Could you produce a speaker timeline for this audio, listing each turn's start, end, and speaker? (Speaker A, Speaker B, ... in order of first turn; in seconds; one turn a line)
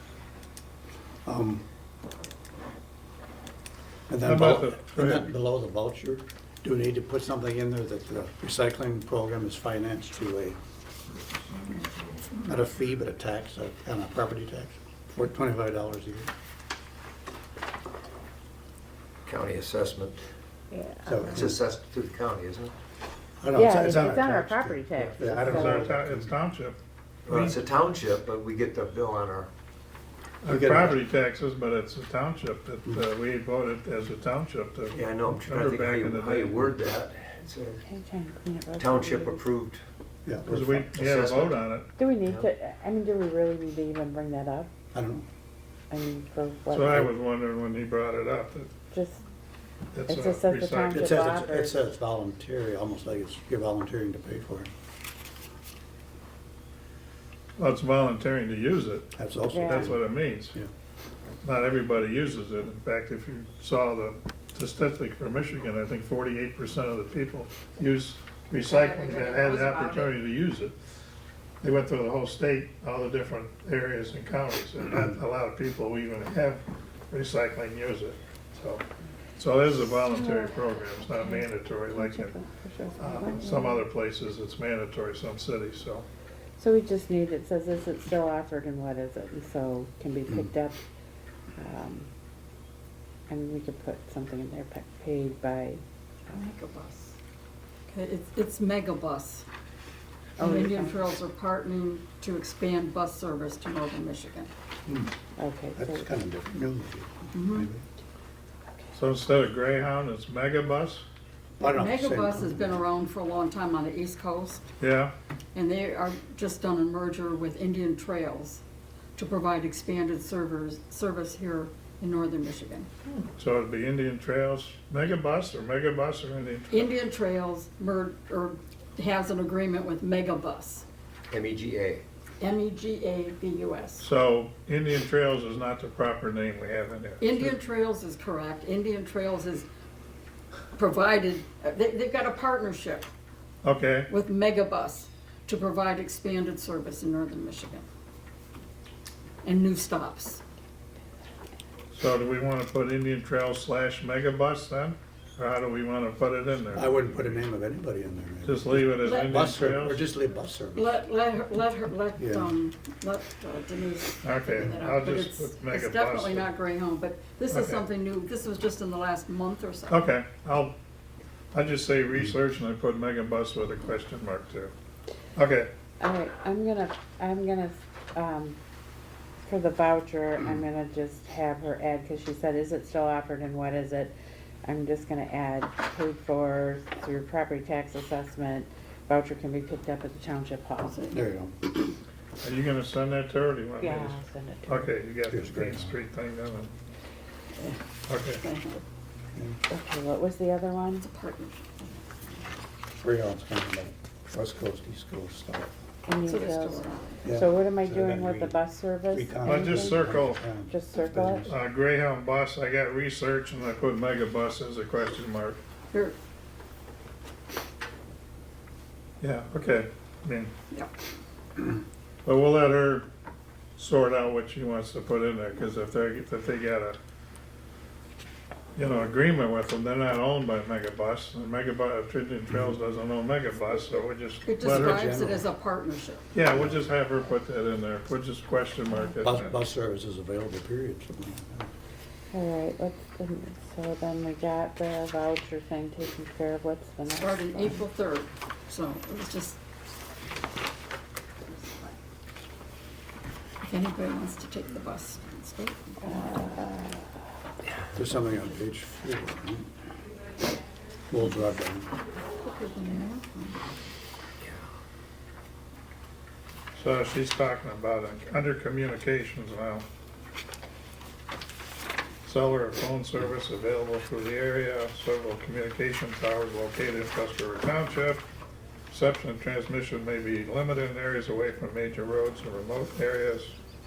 Speaker A: 1.2-1.6
Speaker A: 4.1-10.6
Speaker B: 4.2-5.3
Speaker A: 12.4-16.3
Speaker C: 19.2-20.2
Speaker D: 20.7-21.1
Speaker A: 21.0-21.5
Speaker C: 21.2-22.7
Speaker A: 23.4-26.3
Speaker D: 23.5-25.9
Speaker C: 25.0-25.3
Speaker B: 25.4-26.8
Speaker C: 27.2-29.5
Speaker B: 30.4-36.8
Speaker A: 30.5-31.0
Speaker C: 34.9-37.8
Speaker D: 37.8-39.4
Speaker C: 38.8-39.8
Speaker A: 40.2-40.8
Speaker B: 40.5-41.9
Speaker C: 40.9-41.7
Speaker D: 42.0-44.7
Speaker A: 44.9-45.2
Speaker D: 45.9-47.1
Speaker B: 46.7-48.7
Speaker D: 48.9-49.2
Speaker B: 49.9-51.1
Speaker D: 50.0-51.8
Speaker A: 50.9-54.7
Speaker B: 57.6-59.1
Speaker A: 59.2-60.0
Speaker D: 59.5-59.9
Speaker B: 59.7-60.5
Speaker B: 61.4-70.7
Speaker E: 68.9-70.0
Speaker B: 71.6-78.8
Speaker B: 79.3-82.3
Speaker D: 79.9-83.8
Speaker B: 83.0-86.0
Speaker D: 86.6-90.8
Speaker D: 91.5-92.1
Speaker D: 93.3-95.8
Speaker E: 96.3-97.2
Speaker E: 97.9-99.5
Speaker E: 100.4-104.5
Speaker D: 100.4-101.0
Speaker A: 104.9-105.1
Speaker D: 105.4-106.1
Speaker A: 105.7-107.8
Speaker E: 107.3-107.7
Speaker B: 108.9-111.0
Speaker A: 111.6-112.8
Speaker E: 111.6-114.6
Speaker B: 114.8-115.1
Speaker E: 115.5-118.6
Speaker E: 119.2-122.9
Speaker B: 123.1-126.8
Speaker E: 126.7-130.8
Speaker C: 131.3-132.0
Speaker E: 132.4-134.0
Speaker B: 134.0-137.4
Speaker E: 137.2-139.7
Speaker E: 140.8-143.1
Speaker B: 143.6-144.1
Speaker E: 144.1-147.8
Speaker E: 149.4-150.4
Speaker B: 151.9-157.4
Speaker A: 156.7-161.0
Speaker B: 158.4-160.0
Speaker E: 159.0-159.4
Speaker E: 160.7-170.0
Speaker A: 162.2-162.5
Speaker B: 164.2-166.4
Speaker B: 167.5-167.8
Speaker B: 169.9-170.7
Speaker B: 171.5-174.7
Speaker B: 175.3-175.7
Speaker D: 176.0-178.6
Speaker D: 179.4-191.0
Speaker E: 190.9-191.2
Speaker A: 191.1-191.9
Speaker B: 192.4-196.7
Speaker D: 193.8-194.9
Speaker A: 195.3-195.9
Speaker E: 197.6-198.8
Speaker B: 198.1-198.4
Speaker A: 199.3-199.6
Speaker D: 199.7-201.1
Speaker E: 201.0-201.8
Speaker A: 203.0-205.7
Speaker D: 206.1-210.0
Speaker E: 206.2-207.2
Speaker A: 207.2-211.5
Speaker B: 209.4-210.5
Speaker D: 210.6-211.4
Speaker B: 211.5-215.6
Speaker B: 219.2-220.5
Speaker B: 222.2-223.1
Speaker B: 223.8-227.0
Speaker B: 228.8-235.0
Speaker E: 234.4-236.2
Speaker A: 234.6-235.4
Speaker B: 236.3-239.5
Speaker A: 236.5-236.9
Speaker A: 239.2-241.7
Speaker D: 242.3-247.8
Speaker E: 247.1-249.6
Speaker E: 251.4-251.9
Speaker E: 253.6-256.4
Speaker D: 256.0-257.0
Speaker A: 257.9-259.7
Speaker A: 261.1-261.9
Speaker E: 262.4-263.7
Speaker B: 266.8-269.8
Speaker B: 272.3-278.2
Speaker B: 278.9-283.5